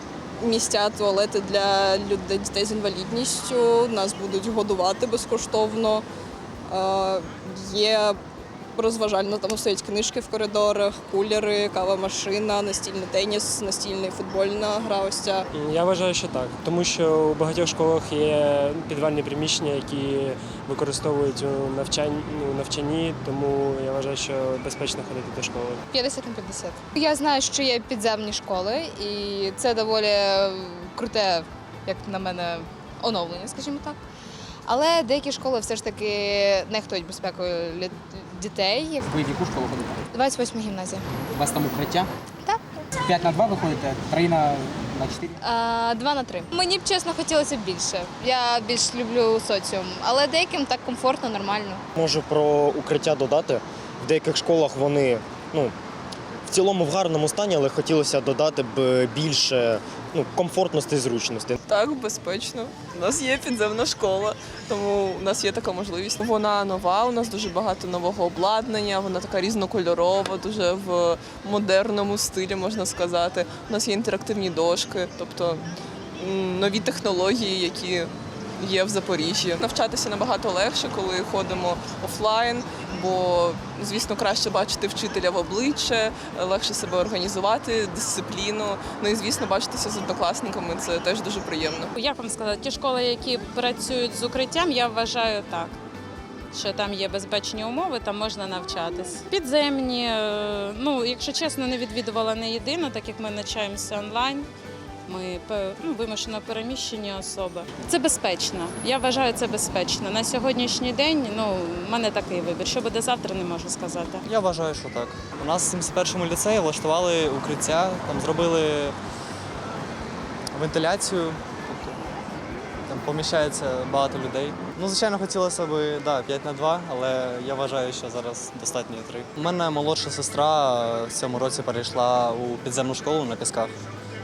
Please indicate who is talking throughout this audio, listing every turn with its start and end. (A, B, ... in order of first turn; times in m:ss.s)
0:00.4-0:06.0 A
0:06.7-0:08.2 A
0:08.8-0:15.5 A
0:15.5-0:25.8 B
0:25.9-0:34.0 C
0:34.7-0:39.0 C
0:39.0-0:40.0 D
0:40.1-0:41.0 C
0:41.3-0:42.1 D
0:43.0-0:45.3 D
0:45.4-0:51.8 C
0:51.9-0:55.7 E
0:56.5-1:01.6 E
1:01.7-1:15.6 F
1:16.2-1:31.9 F
1:32.0-1:35.8 G
1:36.5-1:44.5 G
1:45.1-1:54.2 G
1:54.2-1:59.0 H
2:00.6-2:02.0 H
2:02.9-2:13.7 H